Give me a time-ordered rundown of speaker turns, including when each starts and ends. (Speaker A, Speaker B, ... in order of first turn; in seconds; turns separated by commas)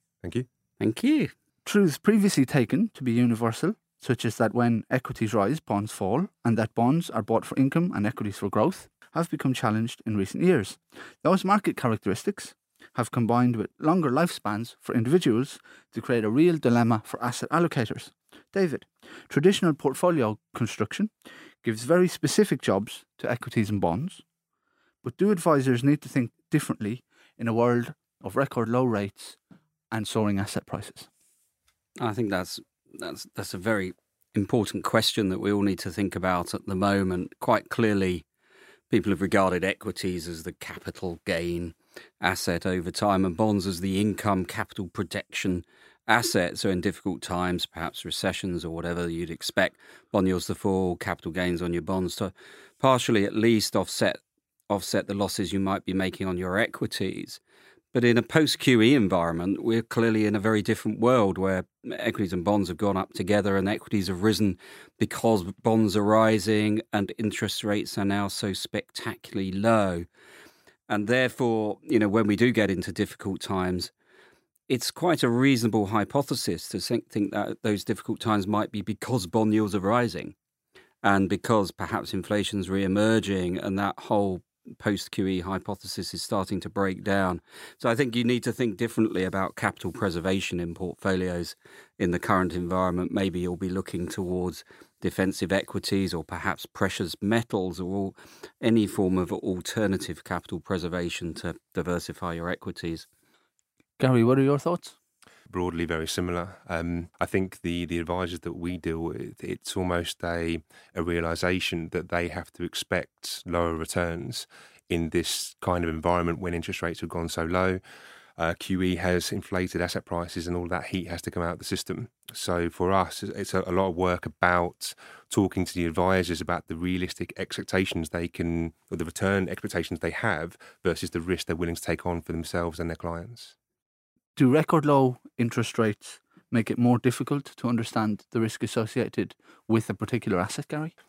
Speaker A: 0.2-0.5, Speaker B: 0.8-1.3, Speaker C: 1.6-21.1, Speaker C: 21.6-24.2, Speaker C: 25.0-29.4, Speaker C: 29.9-31.1, Speaker B: 32.0-38.2, Speaker B: 38.9-57.4, Speaker B: 57.9-70.0, Speaker B: 70.9-73.9, Speaker B: 74.7-80.3, Speaker B: 81.0-103.1, Speaker C: 104.0-104.9, Speaker A: 105.5-117.8, Speaker A: 118.4-133.5, Speaker C: 134.3-140.9